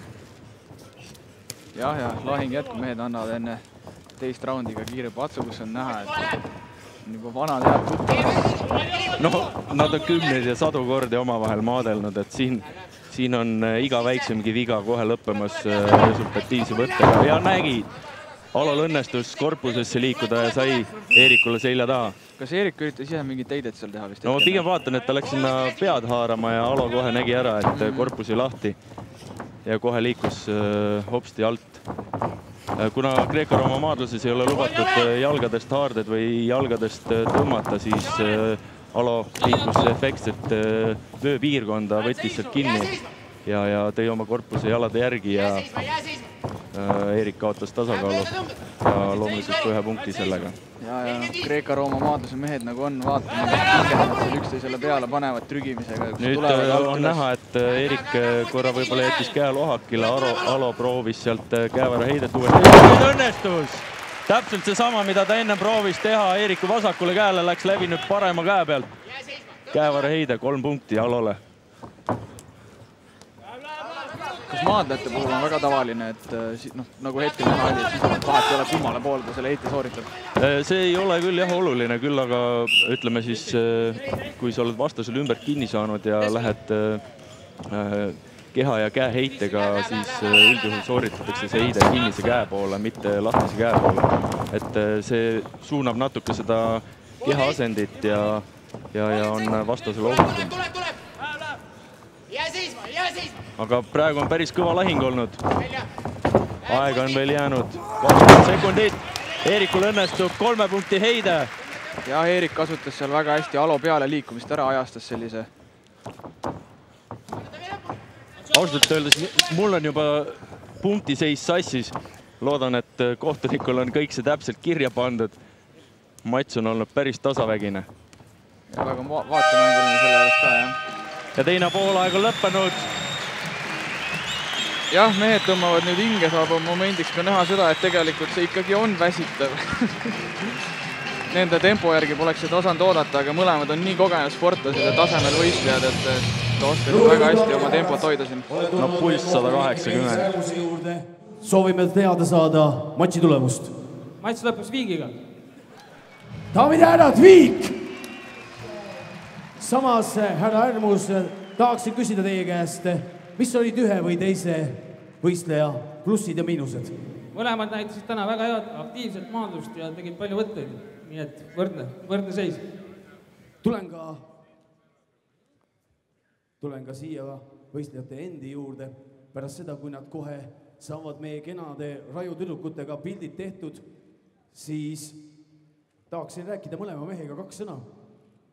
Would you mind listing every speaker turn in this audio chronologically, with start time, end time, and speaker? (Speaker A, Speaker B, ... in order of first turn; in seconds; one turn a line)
Speaker A: 1.7-6.3
Speaker A: 7.0-8.6
Speaker B: 9.2-17.9
Speaker B: 18.5-22.2
Speaker A: 22.4-24.6
Speaker B: 24.2-28.8
Speaker A: 27.7-28.1
Speaker B: 29.6-31.8
Speaker B: 32.8-45.9
Speaker B: 46.7-50.5
Speaker A: 50.8-57.2
Speaker B: 56.2-68.9
Speaker B: 69.7-71.4
Speaker A: 74.5-80.1
Speaker B: 80.3-87.0
Speaker B: 87.7-100.6
Speaker B: 103.5-105.4
Speaker B: 106.7-111.5
Speaker A: 112.0-115.5
Speaker B: 118.5-125.4
Speaker B: 126.2-127.9
Speaker A: 128.7-130.8
Speaker B: 131.3-132.9
Speaker A: 134.9-140.3
Speaker A: 141.3-148.4
Speaker C: 146.8-153.7
Speaker B: 148.8-150.3
Speaker D: 154.2-155.1
Speaker C: 156.5-157.8
Speaker C: 159.6-166.9
Speaker D: 167.3-172.6
Speaker C: 173.6-174.2
Speaker C: 176.6-183.8
Speaker C: 184.5-185.3
Speaker C: 186.1-187.9